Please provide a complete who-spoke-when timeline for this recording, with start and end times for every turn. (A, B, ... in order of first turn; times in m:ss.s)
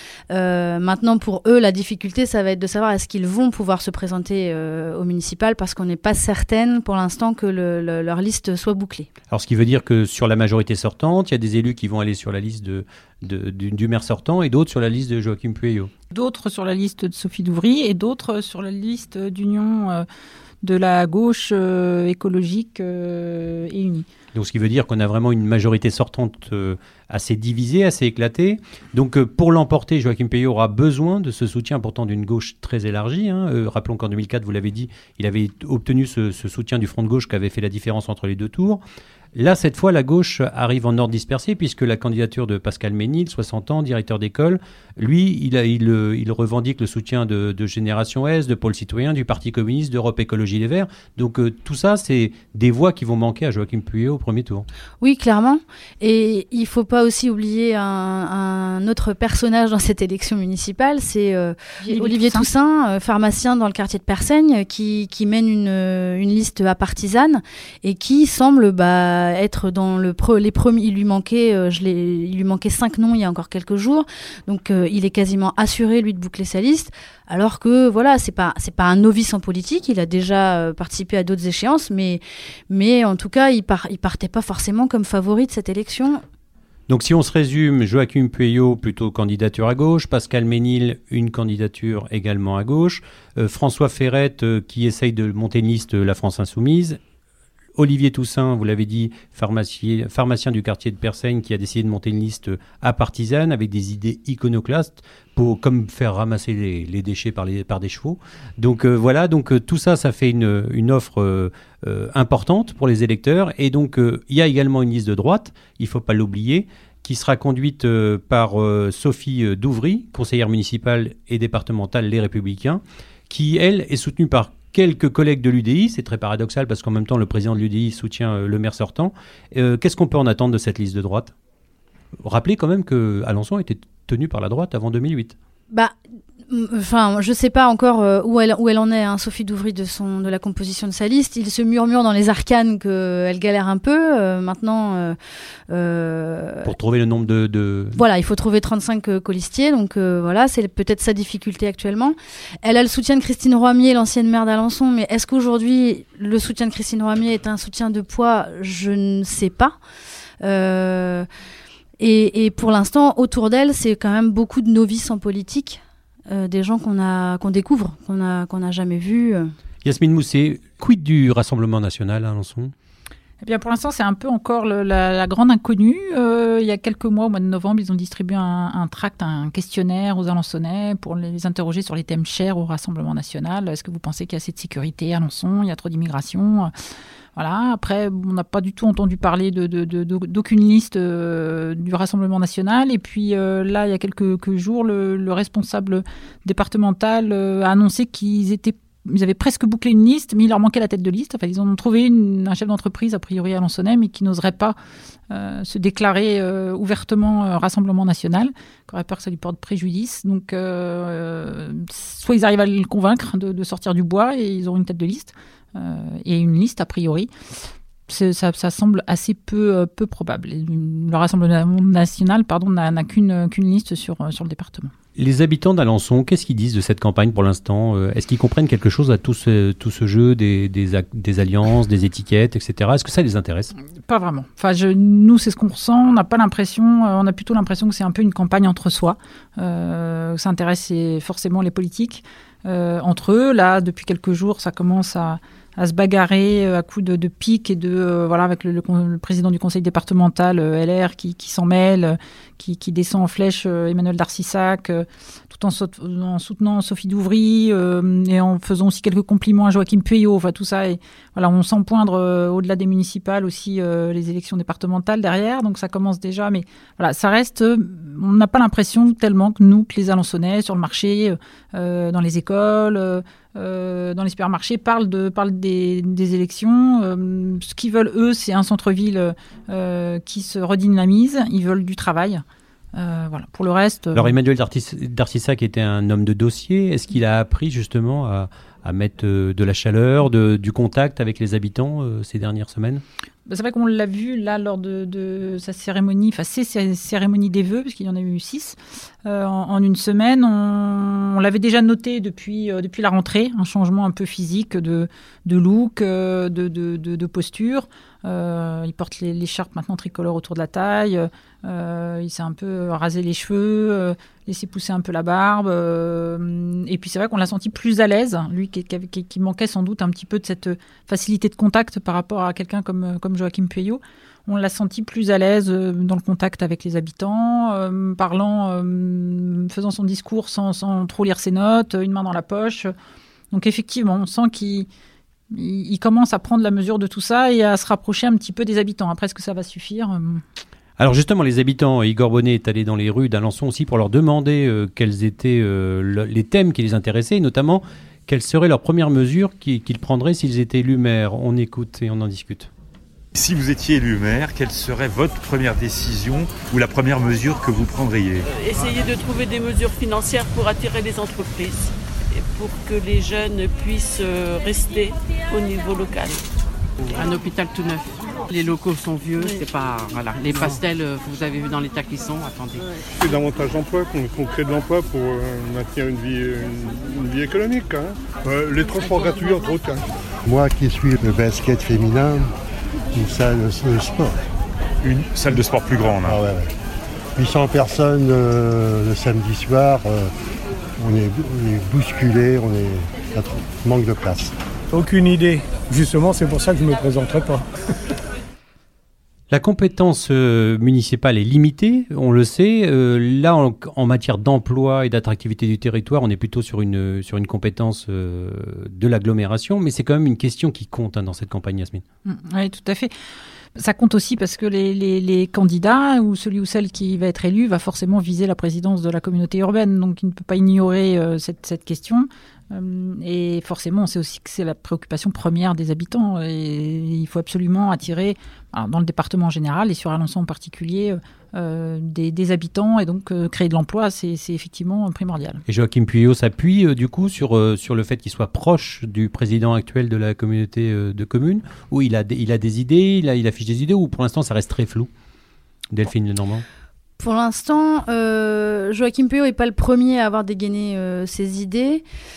0:00.3-0:09.1 A
0:09.3-0:15.9 B
0:16.1-0:20.1 C
0:20.6-0:24.1 C
0:24.3-0:38.8 B
0:39.4-0:54.7 B
0:55.0-1:26.2 A
1:01.8-1:02.5 C
1:26.9-1:37.0 B
1:37.8-2:11.3 B
2:12.2-2:15.4 B
2:16.5-2:25.2 A
2:25.7-2:26.7 A
2:26.6-2:28.0 B
2:28.0-2:39.8 A
2:40.4-2:41.3 A
2:42.0-2:49.5 A
2:49.8-2:52.7 B
2:53.4-3:06.7 C
3:07.4-3:24.8 C
3:25.3-3:37.3 C
3:38.1-3:44.9 C
3:45.2-3:53.7 B
3:54.1-4:42.4 C
4:43.0-4:44.3 C
4:44.2-4:53.0 B
4:53.5-5:32.9 C
5:33.5-5:34.9 C
5:35.5-5:40.4 C
5:41.0-5:52.7 B
5:53.3-5:58.5 D
5:58.5-6:06.4 E
6:07.0-6:12.9 F
6:13.2-6:20.1 G
6:20.5-6:22.5 H
6:23.1-6:24.4 H
6:25.0-6:26.4 D
6:26.2-6:26.7 H
6:27.4-6:30.3 H
6:31.0-6:34.6 H
6:34.9-6:37.7 I
6:39.5-6:52.0 B
6:52.3-6:53.1 C
6:53.8-7:15.6 C
7:15.7-7:25.1 B
7:25.9-7:26.6 B
7:27.2-7:32.0 A